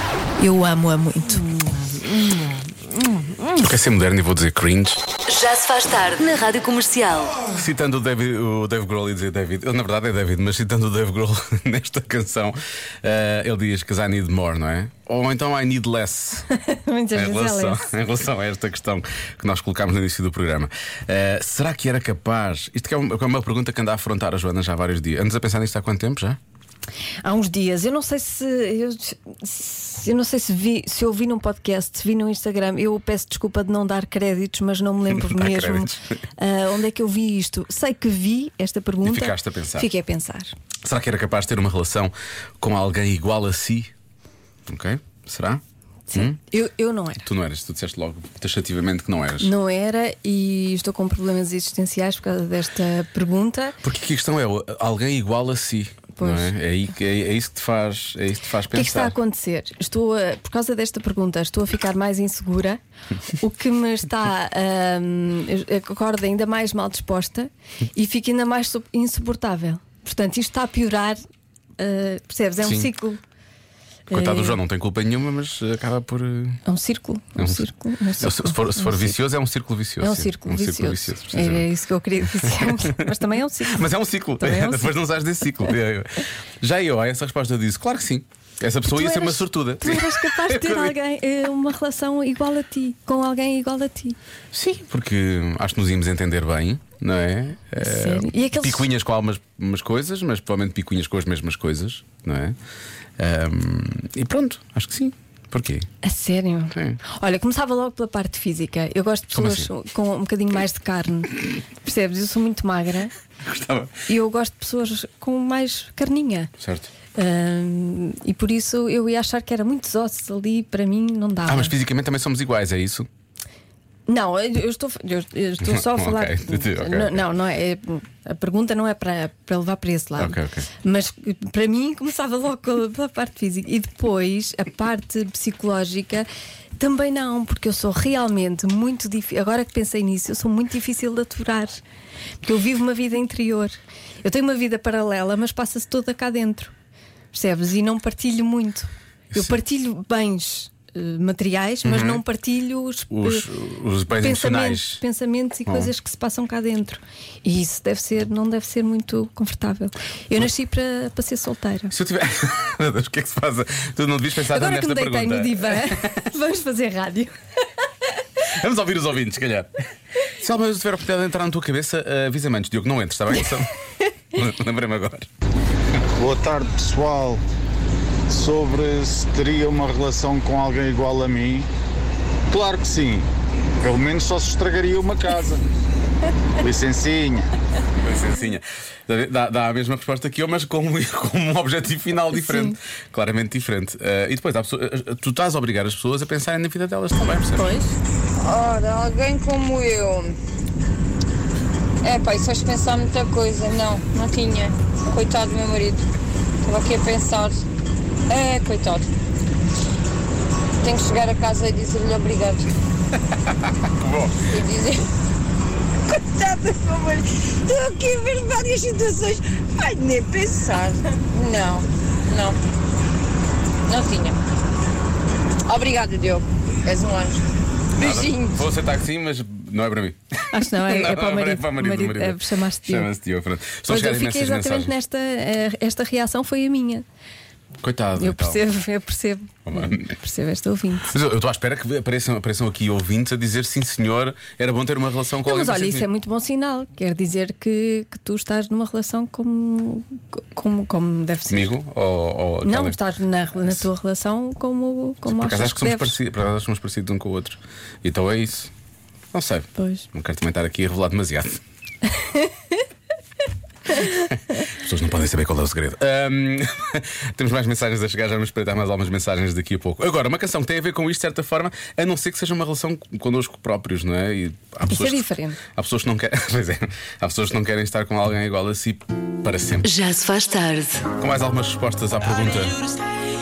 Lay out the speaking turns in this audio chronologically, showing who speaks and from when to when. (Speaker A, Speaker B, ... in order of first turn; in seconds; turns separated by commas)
Speaker A: 0.4-1.5, Speaker B: 3.6-5.0, Speaker C: 5.3-7.4, Speaker B: 7.5-16.5, Speaker A: 16.6-17.9, Speaker B: 17.1-26.4, Speaker A: 27.2-40.5, Speaker B: 35.1-36.0, Speaker B: 39.0-39.9, Speaker B: 40.8-43.9, Speaker B: 44.7-45.6, Speaker A: 46.1-47.3, Speaker B: 47.2-49.5, Speaker A: 49.4-53.8, Speaker B: 53.8-59.1, Speaker A: 56.2-56.5, Speaker A: 58.7-62.8, Speaker A: 63.4-71.2, Speaker A: 71.8-73.2, Speaker B: 72.6-72.9, Speaker A: 74.1-74.6, Speaker B: 74.1-76.6, Speaker A: 76.7-79.2, Speaker B: 77.4-81.7, Speaker A: 80.0-83.9, Speaker B: 82.4-83.0, Speaker B: 83.7-86.1, Speaker A: 84.4-85.0, Speaker B: 86.6-90.9, Speaker A: 88.9-94.2, Speaker B: 94.5-102.6, Speaker A: 97.8-98.9, Speaker B: 103.2-105.9, Speaker A: 106.0-113.1, Speaker B: 106.7-107.0, Speaker B: 109.3-109.7, Speaker B: 113.5-113.9, Speaker A: 114.1-116.5, Speaker B: 116.6-116.9, Speaker A: 117.2-121.8, Speaker B: 121.5-123.1, Speaker A: 124.1-136.3, Speaker B: 125.6-127.3, Speaker B: 130.2-130.7, Speaker A: 136.8-141.8, Speaker A: 142.4-146.7, Speaker A: 147.3-153.5, Speaker B: 149.3-149.6, Speaker B: 151.8-152.2, Speaker B: 153.1-155.0, Speaker A: 154.2-161.9, Speaker B: 155.7-155.9, Speaker B: 161.9-166.1, Speaker A: 164.5-167.3, Speaker B: 168.6-169.7, Speaker B: 170.4-173.7, Speaker B: 174.3-175.3, Speaker D: 176.2-177.4, Speaker D: 178.3-181.7, Speaker D: 182.5-183.3, Speaker D: 183.8-185.6, Speaker D: 186.6-187.5, Speaker B: 188.0-197.8, Speaker E: 198.4-200.4, Speaker E: 202.0-206.0, Speaker E: 206.7-207.6, Speaker E: 208.3-209.1, Speaker E: 210.8-212.7, Speaker B: 214.0-214.3, Speaker E: 214.5-215.1, Speaker E: 216.1-222.6, Speaker E: 223.9-224.4, Speaker E: 225.7-227.4, Speaker E: 228.0-228.6, Speaker B: 228.0-234.9, Speaker A: 230.5-233.1, Speaker A: 233.9-237.1, Speaker B: 237.8-238.6, Speaker A: 238.2-241.1, Speaker B: 239.7-240.1, Speaker B: 241.1-246.1, Speaker A: 245.4-251.7, Speaker B: 251.5-253.0, Speaker A: 252.6-256.2, Speaker B: 255.3-258.7, Speaker B: 259.3-261.6, Speaker A: 259.8-260.1, Speaker B: 264.7-279.9, Speaker A: 274.9-275.6, Speaker C: 279.8-281.1, Speaker B: 281.2-282.8